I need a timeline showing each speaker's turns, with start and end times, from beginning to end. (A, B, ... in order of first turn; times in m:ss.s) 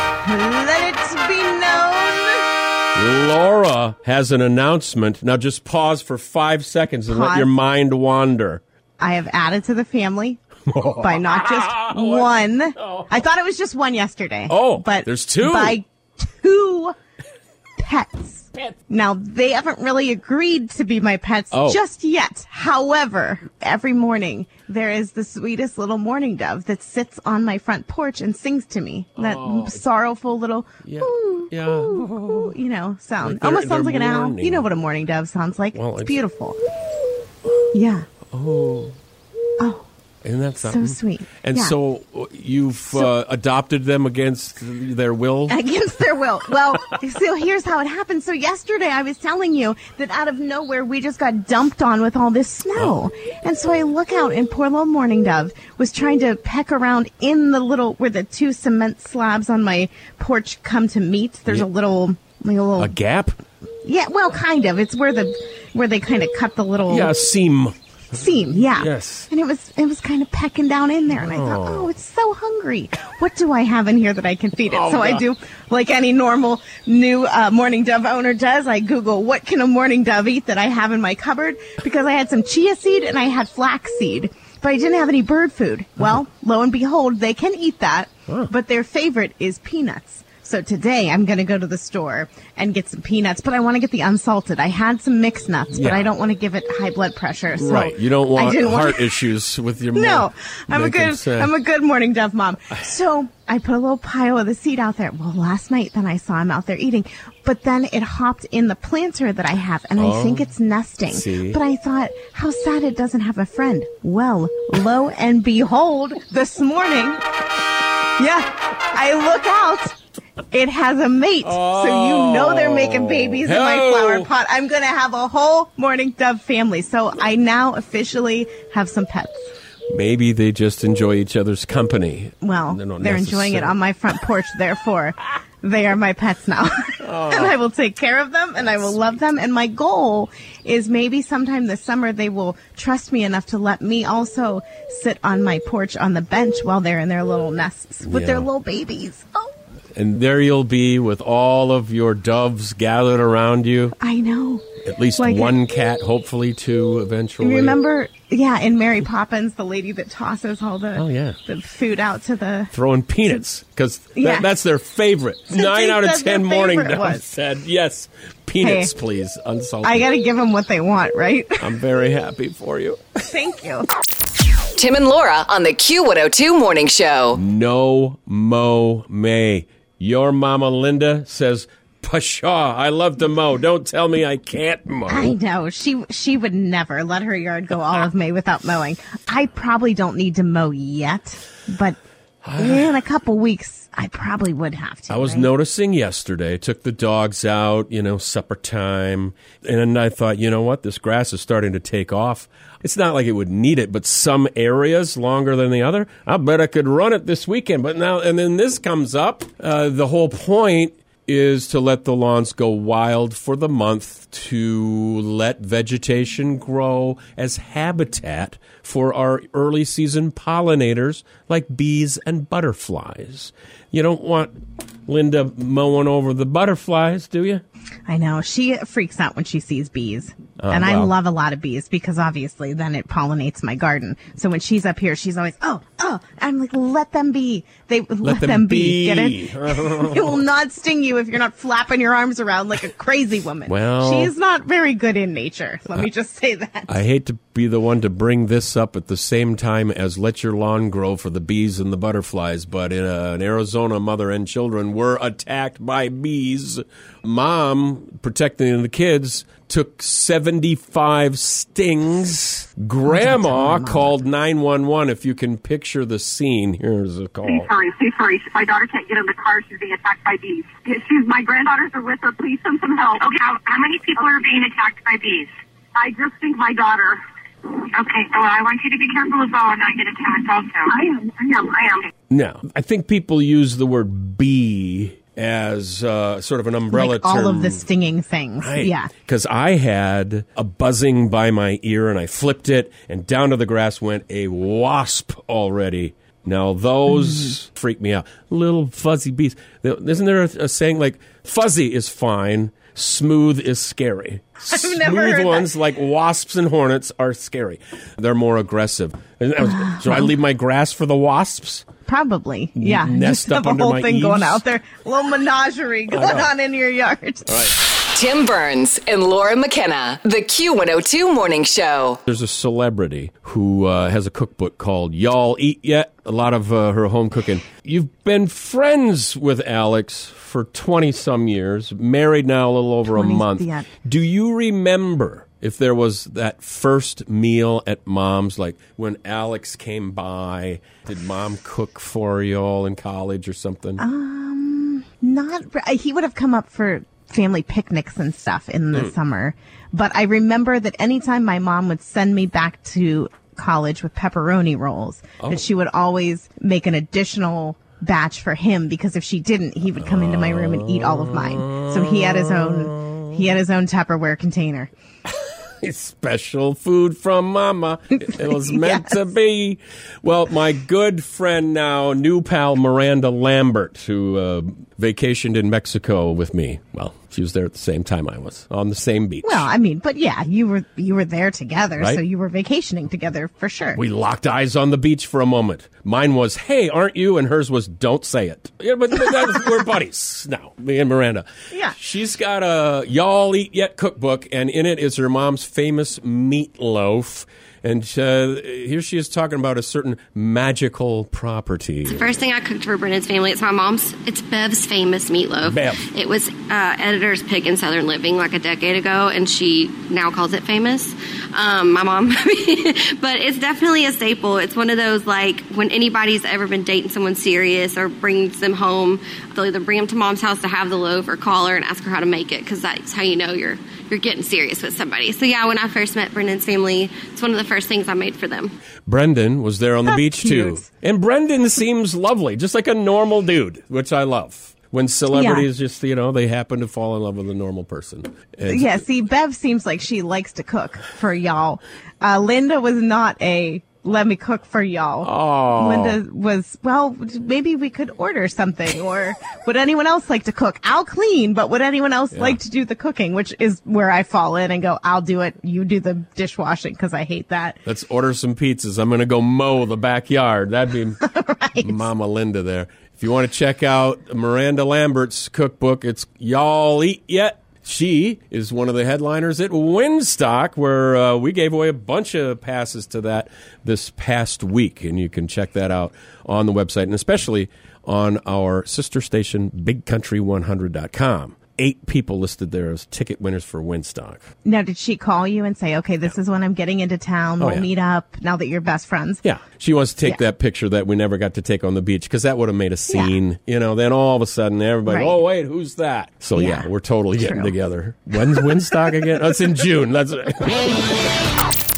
0:00.2-0:02.5 A
0:03.0-0:08.6 B
0:07.1-0:07.5 A
0:09.0-0:10.4 A
0:10.7-0:13.2 B
0:11.0-0:17.0 A
0:14.5-0:15.8 B
0:17.8-0:36.6 A
0:21.5-0:21.8 B
0:29.2-0:29.8 B
0:30.8-0:32.6 B
0:33.2-0:34.7 B
0:35.7-0:36.2 B
0:37.7-0:38.1 A
0:38.3-0:39.0 B
0:39.6-0:39.9 A
0:40.2-0:45.6 B
0:40.6-0:41.8 A
0:45.5-1:03.0 A
1:02.8-1:03.4 B
1:03.8-1:07.1 A
1:06.9-1:07.8 B
1:08.1-1:39.2 A
1:08.3-1:09.3 B
1:11.1-1:11.9 B
1:14.7-1:15.3 B
1:35.7-1:36.1 B
1:37.6-1:41.5 B
1:39.9-1:57.2 A
1:50.0-1:50.5 B
1:51.1-1:51.6 B
1:58.2-2:00.0 A
2:00.5-2:09.5 A
2:01.4-2:04.3 B
2:09.9-2:13.8 B
2:12.4-2:29.5 A
2:17.0-2:17.6 B
2:28.0-2:28.5 B
2:30.0-2:34.0 B
2:34.0-2:34.6 A
2:34.8-2:37.8 B
2:35.2-2:35.6 A
2:37.4-2:42.7 A
2:41.0-2:41.4 B
2:42.7-2:50.1 B
2:44.2-2:44.5 A
2:45.5-2:47.3 A
2:48.6-2:48.9 A
2:49.8-2:51.7 A
2:51.6-2:53.0 B
2:53.3-2:53.9 A
2:54.8-2:57.4 C
2:57.4-3:05.4 B
3:05.1-3:12.0 A
3:12.4-3:12.9 B
3:12.6-3:15.5 A
3:15.1-3:47.6 B
3:48.1-4:07.0 A
3:50.6-3:51.1 B
3:58.2-4:00.4 B
4:03.7-4:04.3 B
4:06.9-4:27.7 B
4:23.0-4:24.2 A
4:27.5-4:42.1 D
4:42.3-4:47.8 B
4:46.9-4:49.1 A
4:48.6-5:11.8 B
4:57.3-4:57.5 A
5:04.7-5:05.7 A
5:09.6-5:10.3 A
5:12.1-5:17.7 A
5:12.8-5:14.6 B
5:16.1-5:16.5 B
5:17.5-5:17.8 B
5:18.1-5:22.2 C
5:22.3-5:44.0 B
5:33.1-5:33.9 A
5:44.0-6:04.9 A
6:00.0-6:03.3 B
6:05.7-6:19.7 B
6:08.2-6:09.2 A
6:19.4-6:24.0 A
6:24.0-6:42.4 B
6:31.7-6:32.0 A
6:42.1-7:08.7 E
6:45.6-6:46.1 B
7:09.1-7:19.0 B
7:10.0-7:10.8 A
7:15.3-7:15.7 A
7:18.7-7:37.8 A
7:25.2-7:26.2 B
7:32.3-7:32.6 B
7:37.9-7:41.2 B
7:41.2-7:42.1 A
7:41.8-8:04.4 B
8:04.6-8:09.4 A
8:07.6-8:07.9 B
8:09.4-8:21.0 B
8:13.1-8:13.4 A
8:15.1-8:15.4 A
8:16.6-8:17.8 A